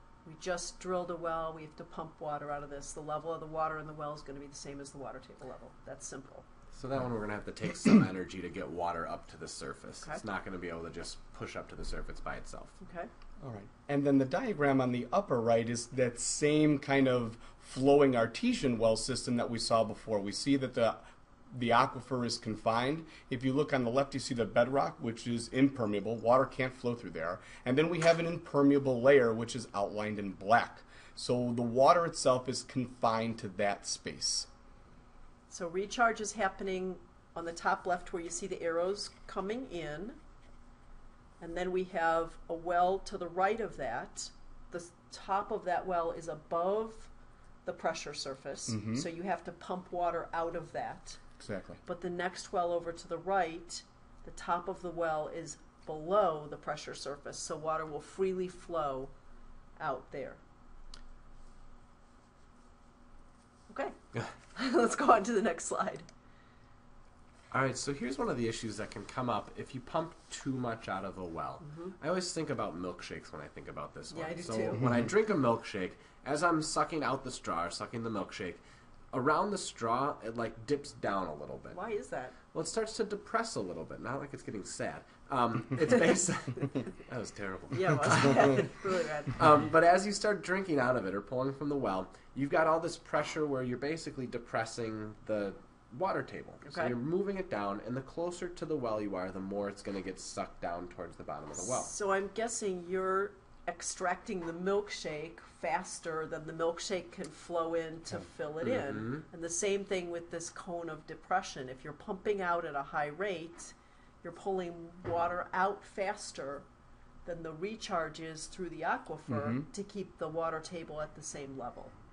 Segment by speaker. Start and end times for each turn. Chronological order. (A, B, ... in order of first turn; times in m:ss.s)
0:00.2-0:06.4 A
0:06.7-0:12.8 B
0:12.8-0:13.1 A
0:13.4-0:34.5 C
0:35.5-0:40.2 A
0:41.4-0:47.1 A
0:47.6-0:51.2 A
0:48.7-0:49.0 C
0:51.4-0:51.8 C
0:51.9-0:59.1 A
0:59.8-1:00.4 A
1:03.7-1:04.0 A
1:04.5-1:06.1 A
1:07.5-1:21.8 B
1:11.6-1:12.0 A
1:14.1-1:15.1 A
1:21.7-1:22.4 A
1:22.5-1:28.7 B
1:27.7-1:29.4 A
1:29.3-1:41.9 B
1:36.6-1:36.9 A
1:41.6-1:56.7 A
1:48.6-1:49.2 B
1:57.2-2:01.9 A
1:59.3-1:59.7 C